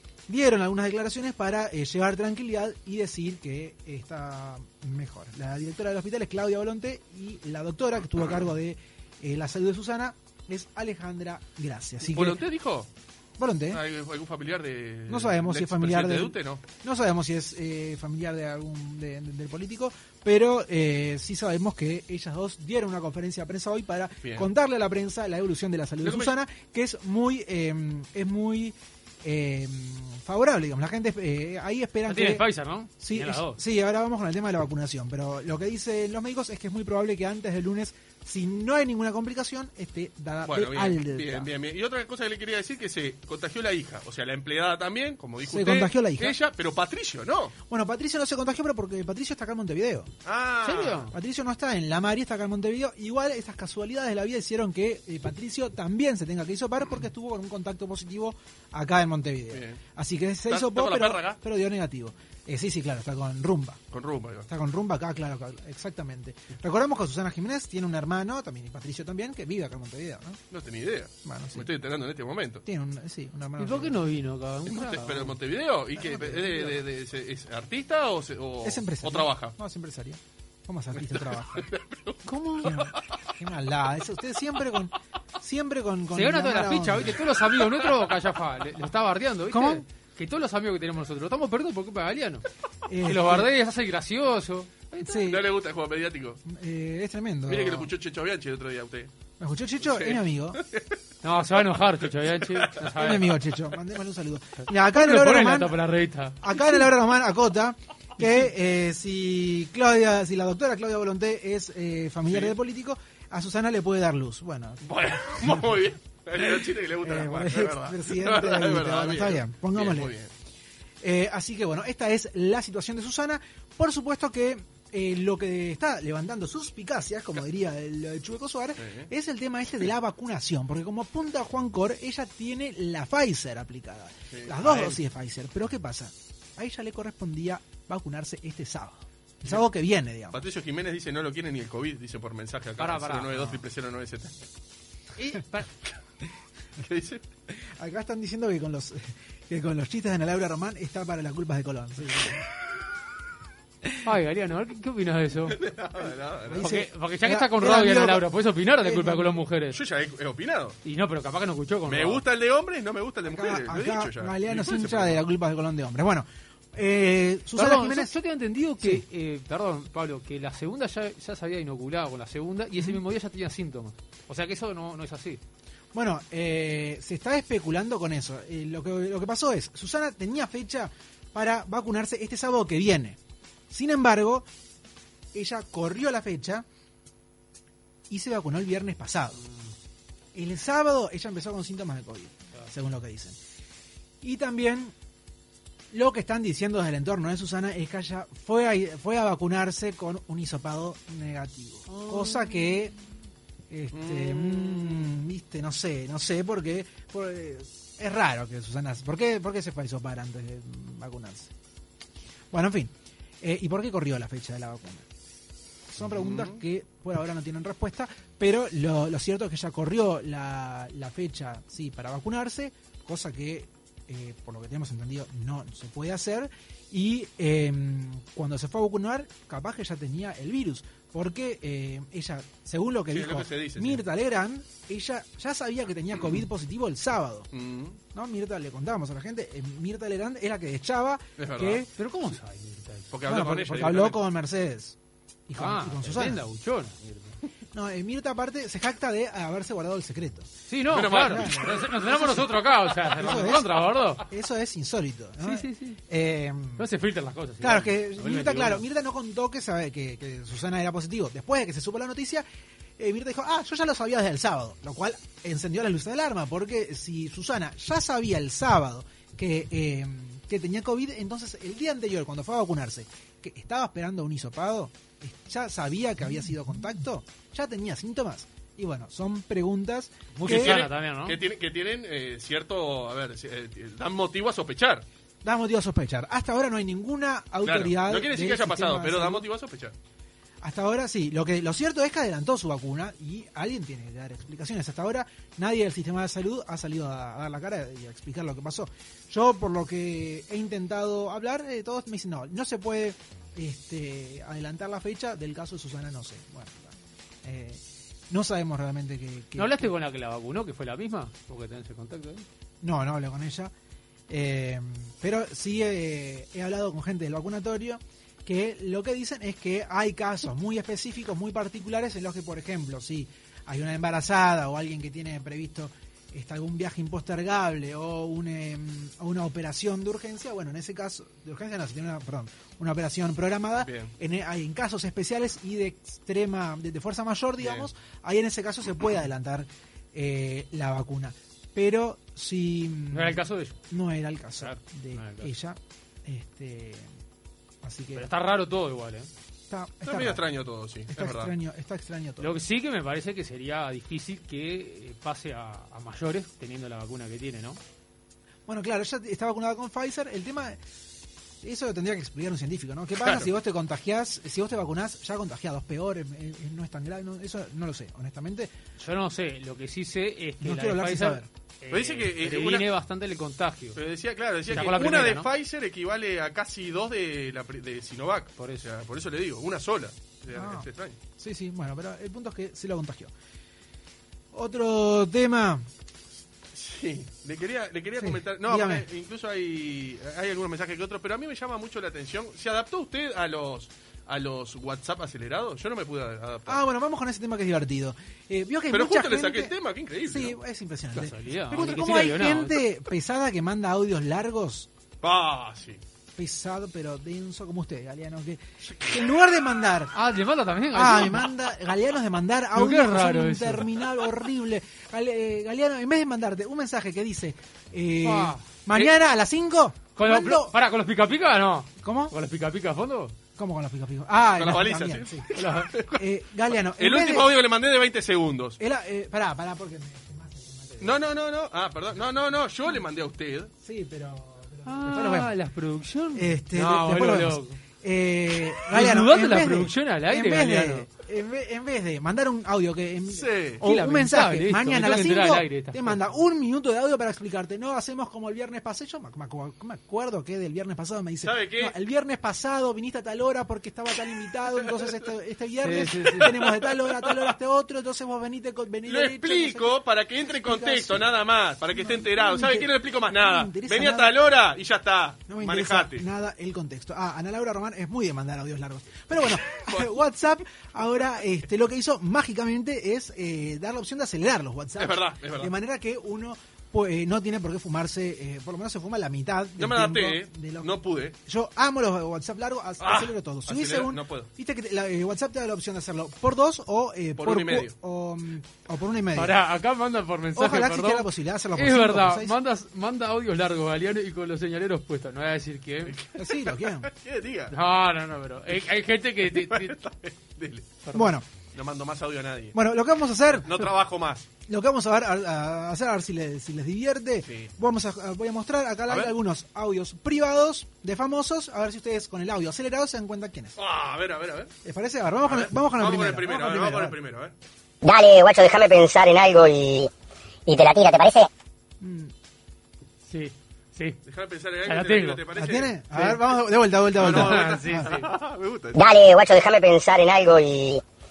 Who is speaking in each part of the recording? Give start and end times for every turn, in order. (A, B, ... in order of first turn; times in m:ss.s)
0:00.3-0:12.4 A
0:12.0-0:12.9 B
0:13.4-0:13.8 A
0:13.7-0:16.6 B
0:15.1-0:32.5 A
0:24.2-0:24.5 B
0:26.0-0:26.4 B
0:32.1-0:33.6 C
0:33.0-0:41.5 A
0:40.5-0:47.6 B
0:45.4-0:46.4 A
0:47.7-0:50.1 A
0:50.2-0:51.1 B
0:50.6-0:51.1 C
0:51.1-1:03.8 A
0:59.5-0:59.8 B
1:00.5-1:01.4 B
1:03.9-1:04.5 B
1:04.5-1:10.4 A
1:10.5-1:12.6 B
1:11.2-1:11.7 A
1:12.7-1:14.0 A
1:13.6-1:15.3 C
1:14.7-1:19.6 B
1:16.0-1:16.8 A
1:18.6-1:21.7 A
1:21.0-1:23.0 B
1:22.3-1:22.6 C
1:22.5-1:27.2 A
1:26.1-1:32.4 C
1:29.5-1:29.8 A
1:32.9-1:33.5 A
1:33.0-1:35.2 C
1:35.0-1:35.5 A
1:35.1-1:36.4 B
1:36.4-1:37.9 A
1:37.5-1:39.1 B
1:39.4-1:40.6 A
1:39.8-1:41.0 B
1:41.2-1:43.4 C
1:42.4-1:42.8 B
1:42.9-1:45.8 A
1:44.8-1:46.6 C
1:46.4-1:55.9 A
1:54.8-2:00.3 B
1:56.4-2:00.1 A
2:01.0-2:20.4 A
2:08.8-2:09.1 B
2:14.3-2:14.7 B
2:14.7-2:14.9 C
2:20.3-2:24.3 B
2:22.8-2:23.5 C
2:25.2-2:25.7 C
2:26.8-2:27.2 B
2:27.6-2:32.4 A
2:34.0-2:35.6 C
2:35.5-2:36.6 B
2:36.5-2:39.4 A
2:36.6-2:39.8 C
2:39.7-2:40.8 B
2:40.8-2:42.2 C
2:41.9-2:45.2 B
2:43.3-2:48.2 A
2:47.6-2:55.4 C
2:55.9-3:03.2 A
3:03.7-3:04.5 A
3:05.3-3:06.7 A
3:08.1-3:09.4 A
3:09.4-3:09.7 C
3:10.3-3:13.4 A
3:14.2-3:14.9 A
3:15.9-3:22.9 A
3:21.9-3:22.8 C
3:23.7-3:31.5 A
3:23.9-3:25.2 B
3:32.5-3:35.1 A
3:35.9-3:57.5 A
3:36.1-3:36.6 B
3:53.1-3:54.0 B
3:57.5-3:58.0 B
3:58.1-4:01.9 A
4:01.4-4:01.8 B
4:02.0-4:03.1 C
4:03.1-4:04.2 B
4:03.2-4:05.0 A
4:05.5-4:06.4 A
4:05.6-4:07.4 C
4:07.7-4:12.6 A
4:10.7-4:14.2 C
4:10.9-4:11.9 B
4:13.1-4:16.9 A
4:15.4-4:16.0 C
4:16.8-4:18.8 C
4:17.6-4:22.4 A
4:23.0-4:40.8 A
4:40.4-4:41.4 C
4:40.4-4:45.0 B
4:45.4-4:49.5 A
4:47.6-4:49.9 B
4:50.6-5:09.9 A
5:09.6-5:12.5 C
5:12.8-5:13.7 A
5:14.3-5:47.1 A
5:33.8-5:34.1 B
5:37.6-5:37.9 B
5:43.1-5:43.8 C
5:44.6-5:45.5 C
5:47.8-5:48.3 A
5:48.2-5:49.3 C
5:49.7-5:50.4 A
5:50.0-5:51.5 B
5:51.1-5:52.6 A
5:52.4-5:57.8 C
5:58.7-6:00.8 A
6:01.6-6:08.7 A
6:03.2-6:03.5 B
6:09.0-6:14.0 C
6:10.6-6:11.5 A
6:11.9-6:12.9 B
6:14.0-6:21.2 B
6:14.7-6:15.5 C
6:18.6-6:18.8 C
6:20.5-6:20.9 A
6:21.4-6:23.3 A
6:24.5-6:25.9 A
6:26.7-6:36.8 B
6:28.2-6:29.1 A
6:36.7-6:44.9 A
6:38.9-6:40.6 B
6:41.2-6:42.8 C
6:45.2-6:46.0 B
6:46.4-6:50.1 A
6:50.1-6:51.5 C
6:50.9-7:00.8 A
6:52.8-6:53.9 C
6:58.2-6:58.6 C
7:00.2-7:03.4 C
7:02.0-7:02.4 A
7:03.6-7:05.5 A
7:04.6-7:08.8 B
7:05.5-7:05.9 C
7:06.1-7:07.5 A
7:08.8-7:11.2 A
7:11.0-7:13.7 B
7:13.8-7:15.5 A
7:14.8-7:17.8 C
7:16.3-7:40.0 A
7:18.9-7:21.1 C
7:23.3-7:23.8 B
7:23.8-7:26.3 C
7:31.4-7:31.9 B
7:35.8-7:36.5 C
7:36.5-7:37.4 B
7:39.1-7:46.2 B
7:40.6-7:41.3 A
7:41.9-7:44.4 A
7:45.5-8:09.6 A
7:49.7-7:50.1 B
7:55.0-7:55.7 B
7:59.8-8:01.4 B
8:03.0-8:04.5 B
8:07.4-8:07.9 B
8:09.4-8:16.2 C
8:10.6-8:12.6 A
8:16.1-8:17.7 B
8:16.4-8:17.1 A
8:17.7-8:19.9 C
8:19.4-8:20.9 B
8:21.0-8:21.3 C
8:21.1-8:21.5 A
8:21.7-8:22.8 B
8:22.7-8:23.8 A
8:23.5-8:24.5 B
8:24.7-8:33.8 A
8:27.4-8:27.7 B
8:29.1-8:29.3 B
8:33.8-8:34.7 B
8:34.8-8:37.2 A
8:35.5-8:37.5 B
8:38.0-8:40.1 D
8:40.7-8:41.5 D
8:42.0-8:42.3 A
8:43.3-8:44.2 C
8:44.3-8:46.5 B
8:44.9-8:45.4 C
8:45.6-8:48.1 A
8:47.2-8:49.0 B
8:47.2-8:48.2 C
8:48.9-8:51.0 D